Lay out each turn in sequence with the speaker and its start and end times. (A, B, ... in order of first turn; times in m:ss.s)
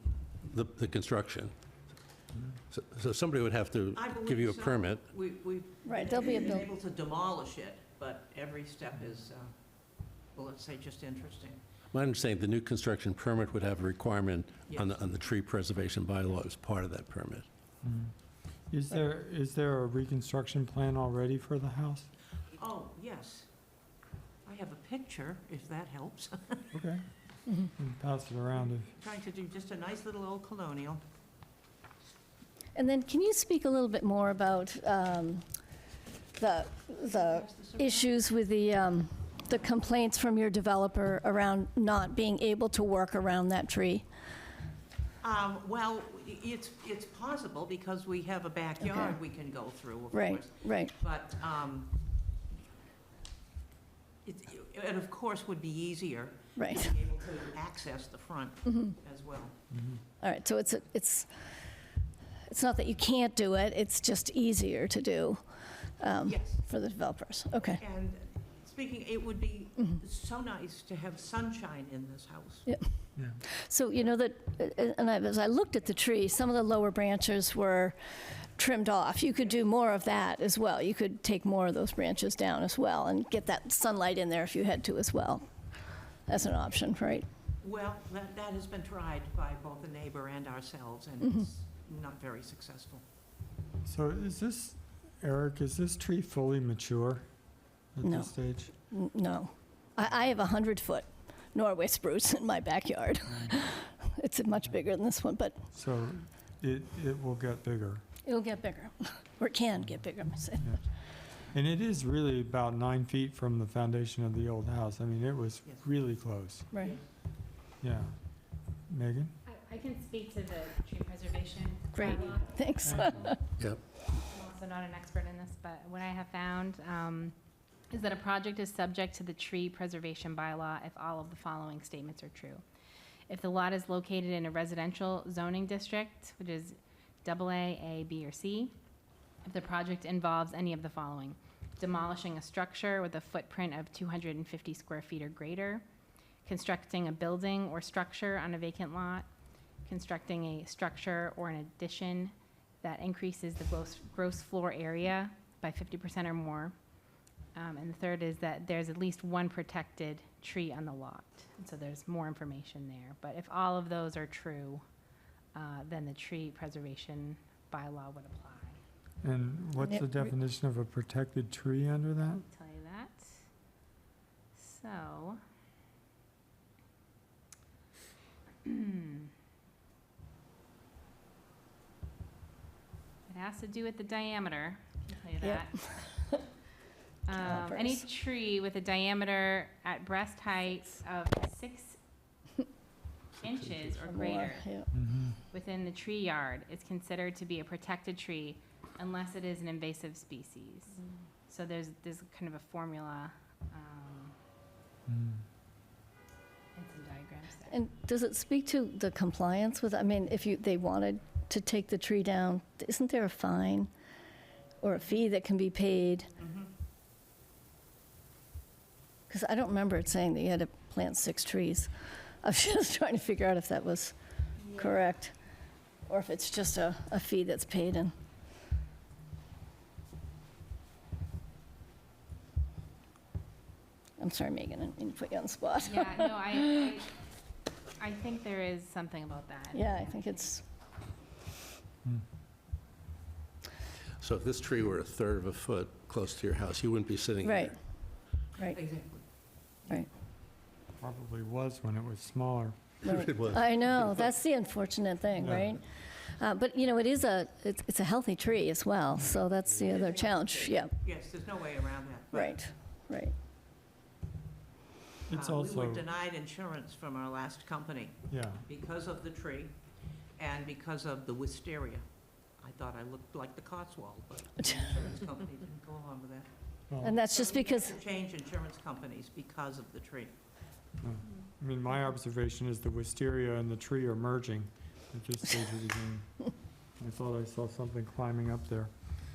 0:00.5-0:01.5 A
0:02.7-0:05.1 A
0:03.9-0:09.6 B
0:05.8-0:06.7 C
0:10.3-0:11.6 B
0:11.9-0:17.4 A
0:14.7-0:15.1 B
0:17.8-0:18.1 D
0:18.7-0:22.1 D
0:22.5-0:23.5 B
0:24.4-0:26.7 B
0:26.7-0:27.1 D
0:27.7-0:28.9 D
0:28.5-0:31.0 B
0:32.8-0:35.5 C
0:36.4-0:44.1 C
0:37.0-0:38.1 B
0:45.2-0:52.0 B
0:48.8-0:49.2 C
0:50.1-0:50.9 C
0:54.2-0:59.6 B
0:56.6-0:56.9 C
0:58.7-0:59.0 C
0:59.7-1:00.0 D
1:00.2-1:01.3 C
1:02.5-1:05.4 C
1:06.0-1:07.8 C
1:06.2-1:06.6 B
1:07.8-1:12.7 B
1:13.4-1:25.5 C
1:26.3-1:27.3 C
1:27.6-1:33.0 B
1:31.2-1:31.5 C
1:33.8-1:37.3 D
1:37.9-1:38.7 D
1:38.0-1:38.3 C
1:38.9-1:45.6 C
1:43.3-1:43.5 D
1:45.7-1:48.0 D
1:48.3-1:50.8 C
1:51.5-1:56.7 D
1:56.7-1:57.0 C
1:56.8-1:57.0 B
1:57.8-1:58.2 D
1:58.9-1:59.3 D
1:59.5-2:03.2 E
2:01.9-2:03.4 C
2:02.8-2:03.3 D
2:04.2-2:07.4 E
2:07.9-2:12.6 E
2:13.3-2:18.8 E
2:19.4-2:25.8 E
2:26.4-2:29.3 E
2:29.9-2:36.7 E
2:37.6-2:44.8 E
2:45.5-2:48.8 E
2:49.2-2:52.4 D
2:49.8-2:50.3 C
2:52.3-2:53.3 E
2:54.6-2:55.4 E
2:58.6-2:59.3 E
3:03.3-3:06.2 E
3:05.4-3:06.2 C
3:07.3-3:12.0 E
3:07.4-3:08.0 C
3:13.4-3:14.7 E
3:14.1-3:14.9 C
3:14.9-3:15.4 D
3:15.5-3:21.0 E
3:21.5-3:24.4 E
3:25.1-3:25.4 D
3:26.8-3:27.8 E
3:27.7-3:33.9 C
3:34.8-3:36.3 C
3:36.4-3:36.7 B
3:39.3-3:41.9 C
3:42.4-3:44.2 C
3:44.7-3:45.4 C
3:46.1-3:48.1 C
3:54.2-3:56.8 C
3:55.8-3:57.1 E
3:58.0-4:00.4 E
3:59.7-4:00.6 C
4:04.2-4:07.7 A
4:07.4-4:07.8 C
4:08.7-4:09.2 B
4:11.0-4:12.9 D
4:13.0-4:21.0 C
4:13.1-4:14.2 A
4:15.4-4:15.8 D
4:20.0-4:22.6 B
4:22.3-4:23.3 C
4:25.3-4:26.0 D
4:25.3-4:29.7 B
4:28.3-4:28.6 D
4:30.4-4:32.0 B
4:32.6-4:36.5 B
4:36.9-4:37.2 D
4:37.0-4:38.0 C
4:37.1-4:40.3 B
4:41.0-4:46.3 D
4:47.0-4:48.9 D